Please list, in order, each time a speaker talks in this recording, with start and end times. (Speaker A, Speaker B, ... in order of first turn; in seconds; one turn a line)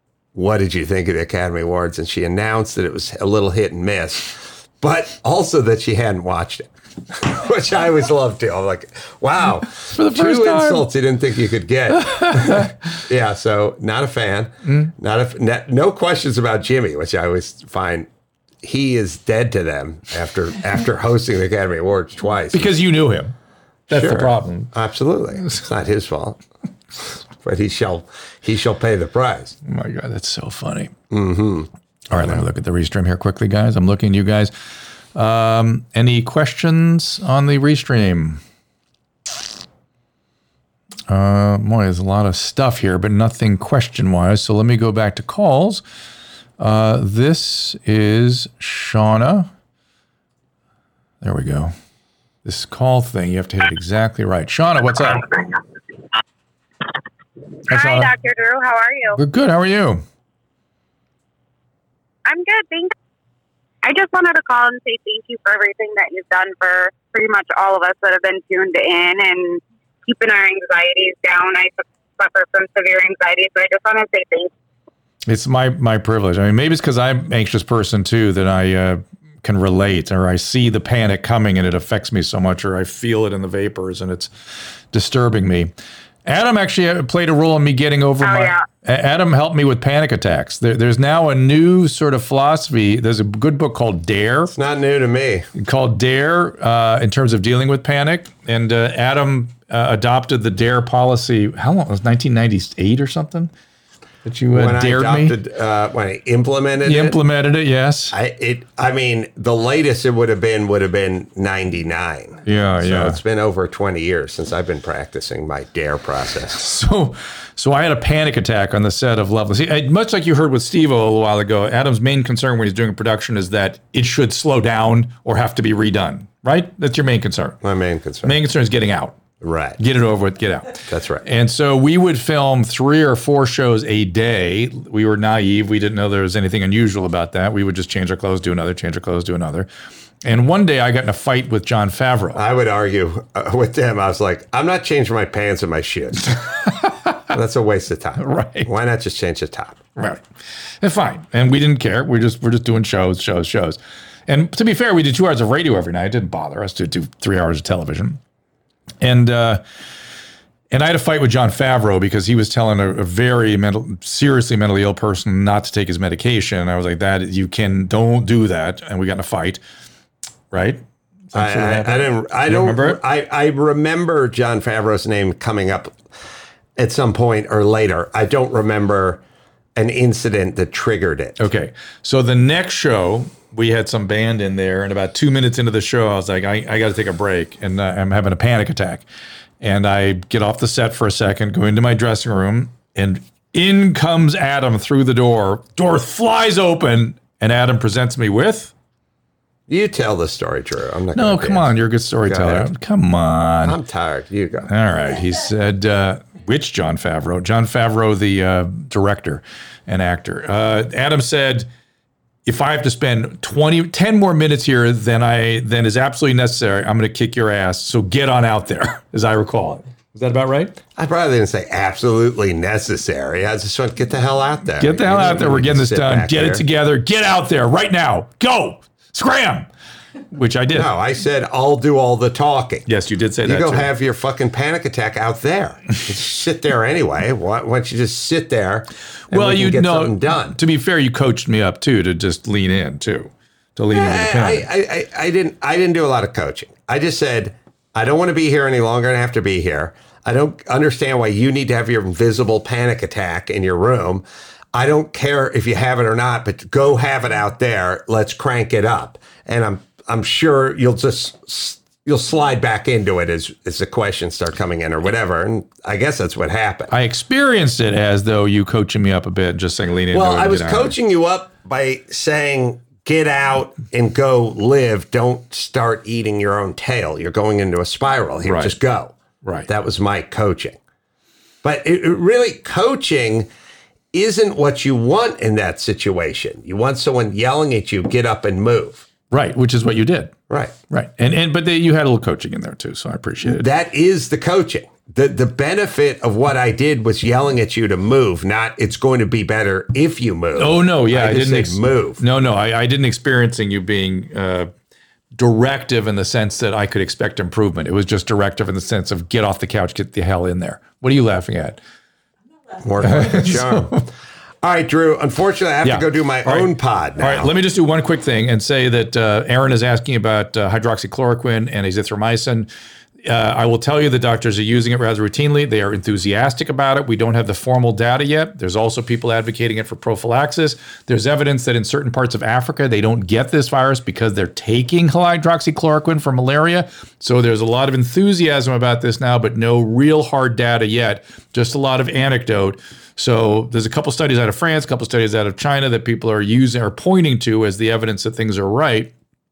Speaker A: 0.3-18.1
Speaker B: 9.7-10.9
Speaker B: 11.9-13.0
Speaker B: 14.7-14.9
Speaker A: 18.6-22.7
Speaker B: 22.5-23.4
Speaker B: 23.9-24.7
Speaker A: 23.9-26.4
Speaker A: 26.9-29.6
Speaker B: 29.6-30.9
Speaker A: 31.1-32.4
Speaker B: 32.1-34.5
Speaker B: 35.1-38.4
Speaker B: 41.1-45.8
Speaker B: 46.6-49.5
Speaker B: 51.2-51.7
Speaker B: 52.5-55.3
Speaker B: 57.7-58.1
Speaker C: 57.7-59.2
Speaker B: 59.2-60.0
Speaker C: 62.3-62.9
Speaker C: 63.8-74.5
Speaker B: 75.3-84.3
Speaker B: 84.9-85.7
Speaker B: 86.3-94.5
Speaker C: 88.2-88.6
Speaker A: 94.5-95.5
Speaker B: 95.6-103.5
Speaker B: 104.2-105.4
Speaker A: 104.5-107.2
Speaker B: 106.8-108.2
Speaker A: 108.1-116.7
Speaker B: 112.5-113.2
Speaker B: 116.5-127.6
Speaker A: 127.6-128.4
Speaker B: 128.2-129.2
Speaker A: 129.4-129.8
Speaker B: 129.8-139.7
Speaker A: 130.9-131.3
Speaker B: 140.2-142.4
Speaker A: 142.3-146.4
Speaker B: 146.3-147.2
Speaker A: 147.3-149.8
Speaker B: 148.2-148.7
Speaker B: 150.0-150.2
Speaker B: 150.8-158.2
Speaker B: 159.0-159.6
Speaker B: 160.7-169.6
Speaker B: 170.5-173.0
Speaker A: 171.3-176.0
Speaker A: 176.8-179.2
Speaker A: 179.8-181.4
Speaker B: 181.4-189.1
Speaker B: 189.6-198.7
Speaker A: 199.7-201.7
Speaker B: 201.2-203.8
Speaker A: 202.2-202.7
Speaker A: 203.6-204.7
Speaker B: 204.7-211.7
Speaker B: 212.5-220.8
Speaker A: 221.0-226.6
Speaker B: 224.8-229.7
Speaker B: 230.3-230.9
Speaker A: 230.7-232.9
Speaker B: 232.9-233.9
Speaker A: 233.4-240.6
Speaker B: 239.3-244.7
Speaker A: 243.9-266.9
Speaker B: 266.9-270.9
Speaker A: 270.1-279.2
Speaker B: 278.4-278.8
Speaker B: 279.4-279.7
Speaker A: 279.7-280.8
Speaker A: 281.6-283.5
Speaker A: 284.1-289.1
Speaker B: 289.3-290.4
Speaker A: 290.5-290.8
Speaker B: 290.9-293.7
Speaker A: 293.4-302.2
Speaker B: 300.6-304.7
Speaker B: 305.4-311.8
Speaker A: 312.8-314.1
Speaker B: 313.0-314.1
Speaker A: 314.6-317.5
Speaker B: 315.8-322.7
Speaker B: 323.2-349.1